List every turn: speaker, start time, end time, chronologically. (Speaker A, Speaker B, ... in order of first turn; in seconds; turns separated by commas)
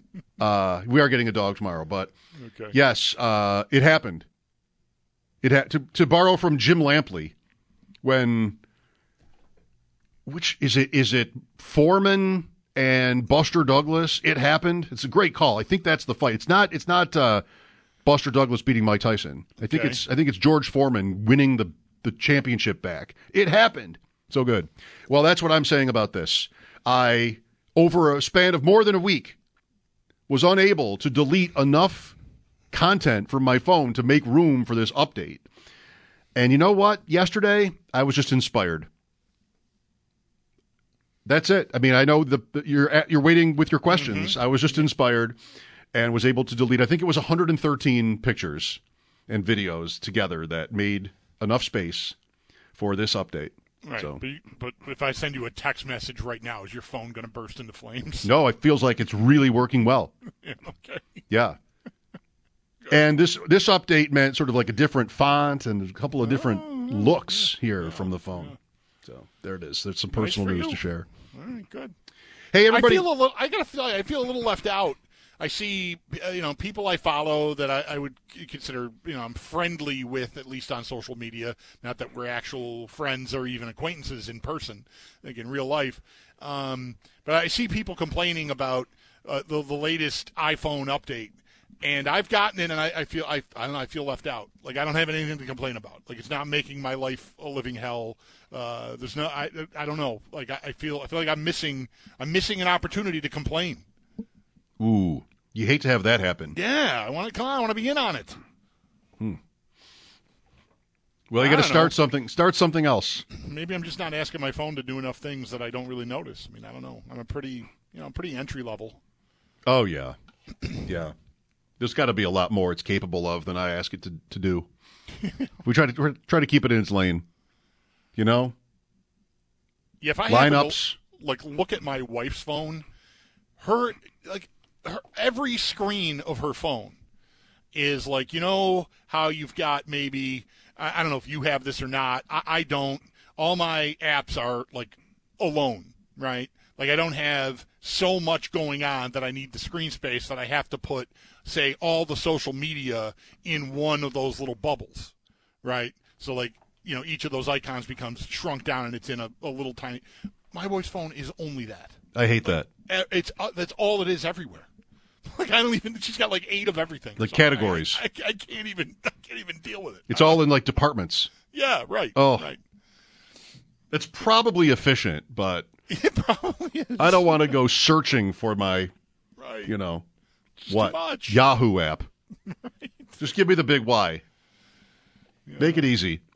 Speaker A: 0.4-2.1, Speaker B: 2.4-2.8, Speaker A: 2.7-4.2, Speaker A: 5.4-7.3, Speaker A: 8.0-8.6, Speaker A: 10.2-17.4, Speaker A: 18.0-29.4, Speaker B: 19.7-20.0, Speaker A: 30.3-32.1, Speaker A: 32.7-35.4, Speaker A: 36.3-38.9, Speaker A: 41.2-45.4, Speaker B: 43.9-44.4, Speaker A: 45.9-52.2, Speaker A: 52.8-54.2, Speaker B: 53.8-58.3, Speaker A: 58.2-60.1, Speaker B: 60.4-61.2, Speaker A: 61.3-61.6, Speaker A: 62.9-68.5, Speaker B: 66.2-67.2, Speaker B: 67.8-68.5, Speaker A: 69.0-71.1, Speaker B: 70.1-71.9, Speaker A: 72.5-73.1, Speaker B: 72.7-103.8, Speaker A: 104.8-106.5, Speaker B: 106.5-108.4, Speaker A: 111.3-113.2, Speaker B: 111.4-112.0, Speaker B: 113.3-119.0, Speaker A: 119.6-120.2, Speaker A: 120.8-121.1, Speaker A: 121.8-124.7, Speaker A: 125.6-127.2, Speaker A: 128.2-128.5, Speaker B: 130.0-132.8, Speaker A: 130.3-131.0, Speaker B: 133.6-137.0, Speaker B: 137.7-164.7, Speaker A: 162.1-162.7, Speaker B: 165.2-170.4, Speaker A: 167.2-168.0, Speaker A: 170.1-171.3, Speaker B: 171.5-172.6, Speaker A: 172.1-172.5, Speaker A: 173.9-175.7, Speaker B: 175.9-177.6, Speaker A: 177.0-178.9, Speaker B: 179.4-179.7, Speaker A: 179.7-180.0, Speaker B: 180.6-181.4, Speaker A: 180.7-182.1, Speaker B: 182.5-182.9, Speaker A: 183.2-184.2, Speaker B: 185.5-185.9, Speaker A: 185.6-186.2